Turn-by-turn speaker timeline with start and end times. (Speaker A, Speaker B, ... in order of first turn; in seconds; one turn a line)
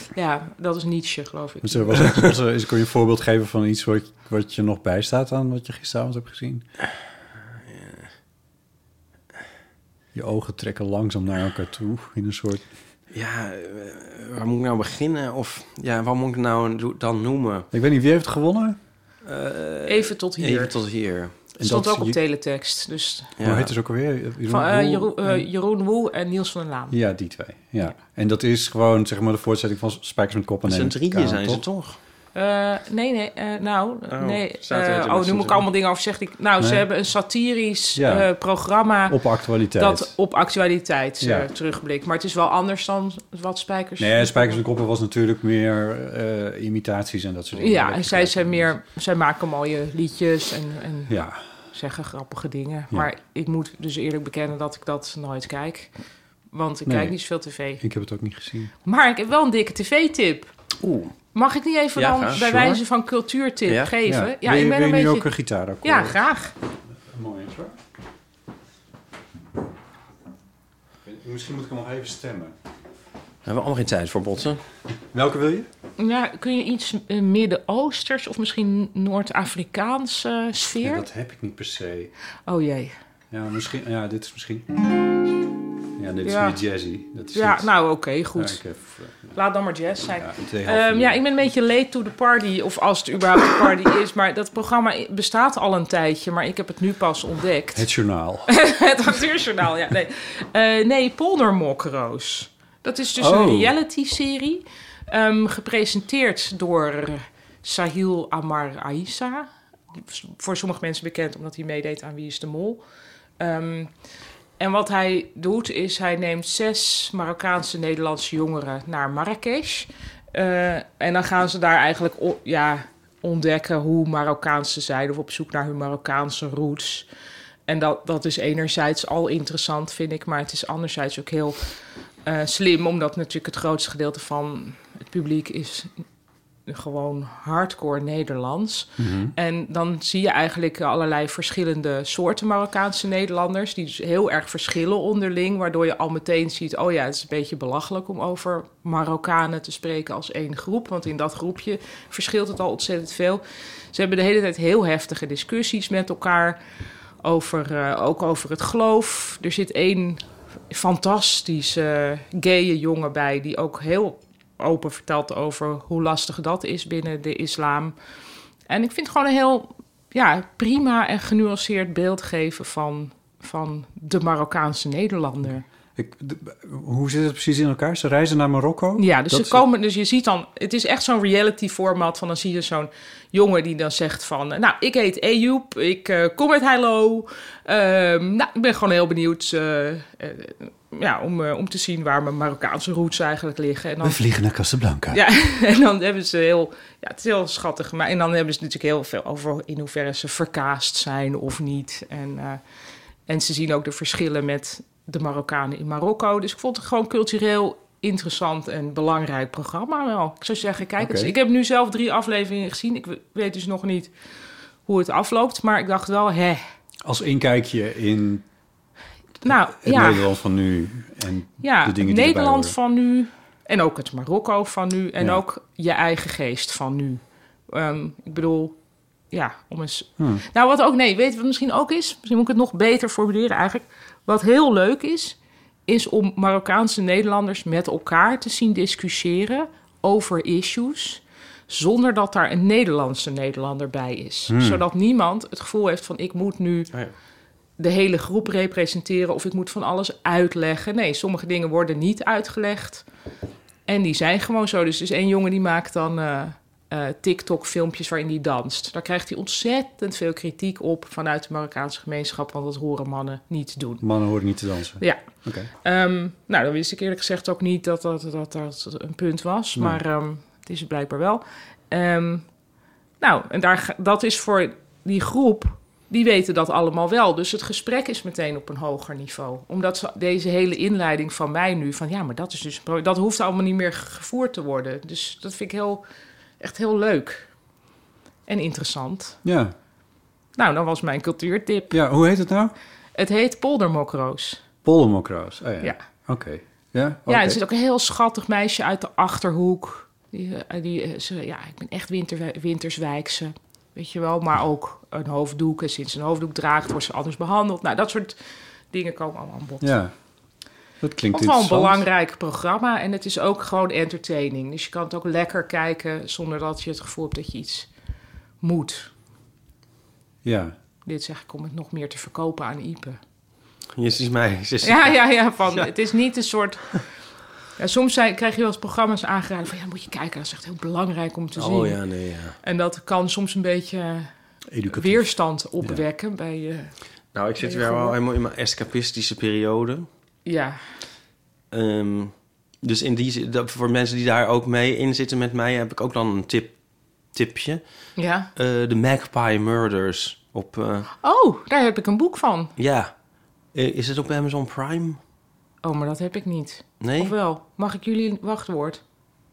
Speaker A: 0.1-2.1
Speaker B: 1.6-6.7
Speaker B: 10.1-12.6
Speaker C: 13.1-17.7
Speaker B: 17.7-18.8
Speaker C: 19.2-21.4
Speaker A: 19.9-20.8
Speaker B: 21.6-22.2
Speaker A: 21.6-23.3
Speaker C: 23.4-23.7
Speaker B: 23.4-25.5
Speaker A: 24.5-27.0
Speaker B: 26.9-31.6
Speaker C: 30.7-32.0
Speaker A: 32.4-39.2
Speaker C: 34.1-35.7
Speaker B: 36.6-36.9
Speaker B: 38.0-38.3
Speaker B: 39.1-40.1
Speaker A: 39.8-44.6
Speaker B: 41.2-41.5
Speaker B: 44.0-48.7
Speaker A: 47.6-51.2
Speaker B: 51.1-51.4
Speaker A: 51.7-55.9
Speaker A: 56.5-57.8
Speaker B: 56.9-57.2
Speaker B: 57.8-58.7
Speaker A: 58.8-60.5
Speaker C: 60.8-61.1
Speaker A: 61.3-65.3
Speaker C: 62.0-62.8
Speaker C: 63.7-63.9
Speaker B: 64.1-66.2
Speaker A: 65.8-66.5
Speaker B: 67.0-67.8
Speaker B: 71.0-72.5
Speaker C: 73.5-74.6
Speaker B: 75.1-75.7
Speaker A: 76.0-81.0
Speaker B: 80.8-82.1
Speaker A: 82.5-82.9
Speaker B: 83.3-84.8
Speaker B: 86.0-87.7
Speaker A: 86.2-86.6
Speaker A: 87.3-88.6
Speaker B: 88.3-89.3
Speaker A: 89.3-97.9
Speaker B: 90.2-91.2
Speaker B: 97.7-98.5
Speaker A: 98.5-112.8
Speaker B: 103.2-103.7
Speaker A: 113.4-113.9
Speaker A: 114.6-127.1
Speaker A: 127.7-131.7
Speaker A: 132.2-136.0
Speaker A: 136.7-156.6
Speaker B: 139.0-139.3
Speaker A: 157.2-167.9
Speaker A: 168.7-175.7
Speaker B: 176.0-179.6
Speaker A: 179.0-194.2
Speaker B: 194.0-195.2
Speaker A: 195.1-202.6
Speaker A: 203.3-214.1
Speaker B: 211.0-211.3
Speaker A: 214.9-216.6
Speaker B: 217.0-218.4
Speaker A: 219.4-220.2
Speaker B: 219.4-222.8
Speaker A: 221.6-228.8
Speaker A: 229.3-246.9
Speaker B: 230.2-230.4
Speaker B: 244.5-244.8
Speaker A: 247.8-253.1
Speaker A: 253.9-264.1
Speaker B: 264.0-265.7
Speaker A: 265.0-272.5
Speaker A: 273.2-286.0
Speaker A: 286.6-287.5
Speaker A: 288.5-289.4
Speaker B: 289.4-289.7
Speaker A: 290.6-292.0
Speaker B: 291.9-292.7
Speaker A: 293.1-294.6
Speaker B: 294.8-297.6
Speaker A: 297.3-308.4
Speaker A: 308.9-309.9
Speaker B: 309.8-310.1
Speaker B: 311.0-312.1
Speaker A: 311.3-317.9
Speaker A: 318.6-319.1
Speaker B: 320.4-320.7
Speaker A: 321.1-323.2
Speaker C: 324.0-325.9
Speaker A: 324.8-327.0
Speaker A: 327.8-332.0
Speaker C: 331.6-332.6
Speaker A: 332.6-334.3
Speaker B: 334.7-336.0
Speaker A: 334.9-336.9
Speaker C: 337.3-340.1
Speaker A: 337.6-338.2
Speaker A: 340.5-340.8
Speaker C: 341.7-346.8
Speaker C: 347.3-351.1
Speaker A: 348.2-348.5
Speaker A: 351.2-352.7
Speaker C: 352.8-353.1
Speaker C: 353.7-355.2
Speaker A: 355.8-359.0
Speaker C: 357.0-357.3